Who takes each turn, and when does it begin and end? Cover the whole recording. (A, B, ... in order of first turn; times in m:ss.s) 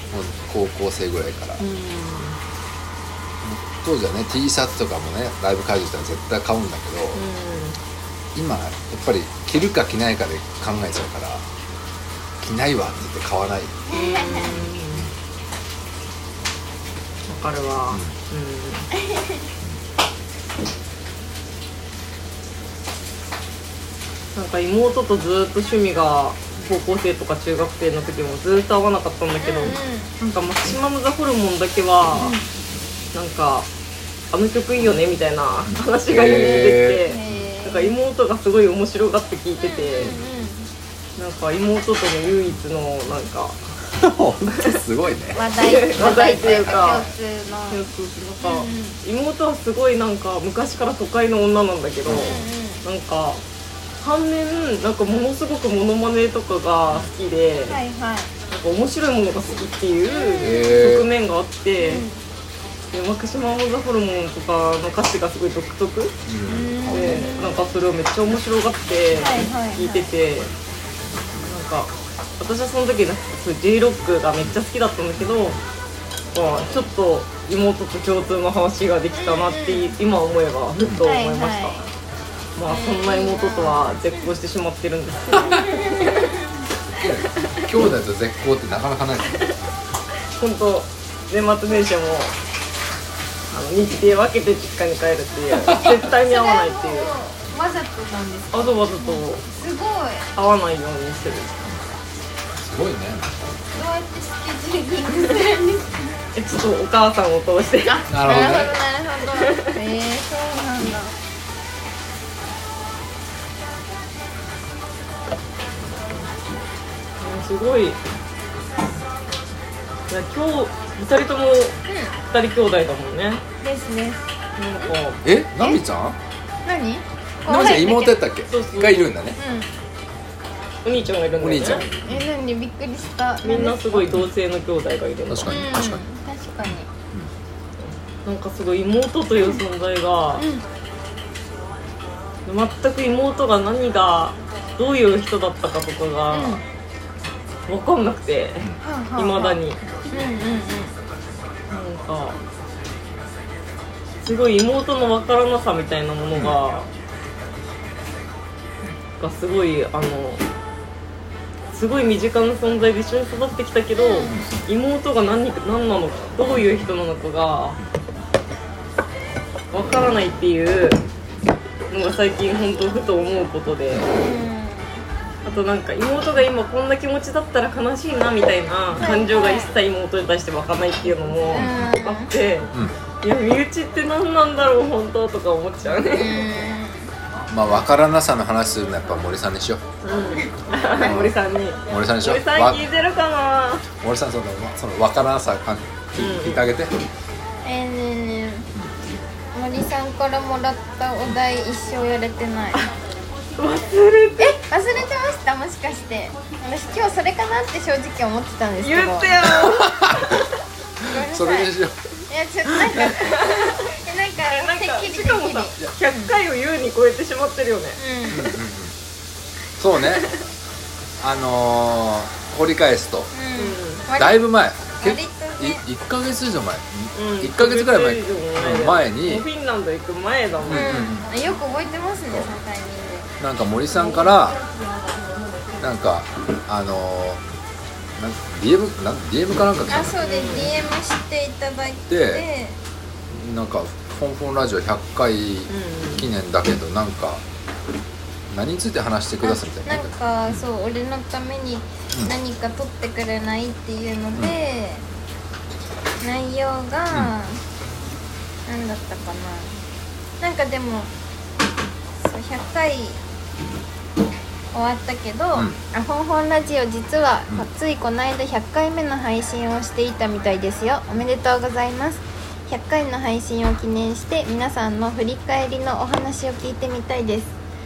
0:00.1-0:01.6 A
0:01.6-0:02.4 B
0:03.4-0:07.2 A
0:07.1-0:07.8 B
0:08.4-0:11.4 A
0:12.4-0:13.8 A
0:13.9-0:14.6 C
0:13.9-0:15.1 B
0:14.8-0:15.2 A
0:17.3-0:18.9 B
0:19.0-0:19.4 C
0:24.4-0:32.4 B
0:29.4-0:30.1 C
0:32.2-0:32.5 C
0:33.1-0:33.7 B
0:34.3-0:40.1 B
0:35.7-0:37.5 A
0:36.3-0:38.0 C
0:39.6-0:40.7 C
0:40.0-0:40.2 A
0:41.2-0:43.8 B
0:43.9-0:47.2 A
0:44.5-0:44.8 B
0:45.3-0:47.9 C
0:45.6-0:47.1 B
0:47.7-0:53.4 B
0:48.4-0:49.0 C
0:52.1-0:52.4 A
0:52.1-0:52.8 C
0:54.0-0:57.8 B
0:57.7-0:58.3 C
0:58.5-1:02.1 B
1:00.1-1:00.8 C
1:00.4-1:01.1 A
1:01.8-1:02.2 C
1:02.9-1:06.2 B
1:06.3-1:07.3 A
1:06.5-1:07.8 C
1:06.9-1:10.5 B
1:09.1-1:10.1 C
1:11.4-1:15.6 B
1:15.2-1:15.6 A
1:16.3-1:21.8 B
1:19.2-1:20.0 C
1:21.0-1:21.8 C
1:22.6-1:26.3 B
1:22.7-1:24.3 C
1:25.4-1:25.7 A
1:25.5-1:26.6 C
1:26.9-1:29.7 A
1:30.4-1:32.4 B
1:33.5-1:37.1 B
1:35.5-1:36.0 A
1:35.7-1:40.3 C
1:38.5-1:39.4 B
1:40.4-1:41.6 B
1:42.5-1:43.7 A
1:43.7-1:46.1 C
1:46.4-1:48.0 B
1:47.9-1:51.1 C
1:48.1-1:48.8 A
1:49.4-1:49.7 B
1:57.2-1:58.0 B
2:00.1-2:01.8 B
2:01.9-2:02.1 C
2:02.3-2:03.4 B
2:03.6-2:04.2 C
2:04.6-2:05.2 B
2:05.2-2:06.2 A
2:06.6-2:08.2 C
2:07.5-2:09.4 A
2:08.5-2:09.1 B
2:09.4-2:09.7 C
2:10.8-2:11.9 B
2:11.4-2:12.3 A
2:12.1-2:14.2 C
2:13.4-2:15.6 B
2:15.3-2:16.0 A
2:15.5-2:16.9 C
2:16.7-2:17.3 A
2:17.8-2:20.4 B
2:20.4-2:20.6 C
2:22.5-2:26.6 B
2:26.3-2:26.6 C
2:27.7-2:29.8 B
2:28.8-2:31.0 C
2:31.7-2:32.4 B
2:34.2-2:36.9 B
2:39.2-2:40.4 B
2:41.7-2:47.8 B
2:44.0-2:44.4 C
2:49.7-2:51.0 B
2:51.9-2:54.1 B
2:54.0-2:55.0 C
2:55.4-3:06.4 B
2:59.0-2:59.7 C
3:01.5-3:02.0 A
3:01.5-3:02.3 C
3:02.7-3:03.0 A
3:06.1-3:07.1 C
3:07.5-3:09.8 A
3:10.0-3:13.9 B
3:10.4-3:11.1 C
3:11.0-3:11.4 A
3:11.9-3:12.8 A
3:14.0-3:17.0 A
3:16.2-3:16.6 B
3:17.6-3:18.7 C
3:18.7-3:19.1 A
3:19.5-3:22.9 C
3:23.6-3:24.6 B
3:24.4-3:29.8 C
3:28.8-3:30.4 B
3:29.8-3:30.3 A
3:31.0-3:31.8 C
3:31.0-3:32.0 A
3:32.3-3:36.3 C
3:32.7-3:33.1 A
3:33.2-3:33.9 B
3:34.5-3:38.0 B
3:38.0-3:38.6 C
3:38.3-3:39.0 A
3:39.8-3:40.3 A
3:40.0-3:40.4 B
3:41.2-3:43.3 A
3:43.3-3:44.5 C
3:43.6-3:44.0 B
3:44.2-3:49.5 A
3:45.0-3:45.8 C
3:47.2-3:51.1 B
3:50.6-3:51.3 A
3:50.7-3:53.3 C
3:53.4-3:54.6 A
3:55.8-3:57.4 A
3:58.2-4:00.2 A
3:59.9-4:02.8 C
4:00.2-4:00.8 B
4:02.1-4:02.5 A
4:03.3-4:07.4 A
4:05.7-4:06.3 B
4:08.5-4:10.6 A
4:09.4-4:15.0 C
4:16.2-4:17.6 C
4:18.7-4:19.8 C
4:20.4-4:21.1 C
4:22.2-4:23.2 C
4:24.7-4:37.6 C
4:25.5-4:25.8 A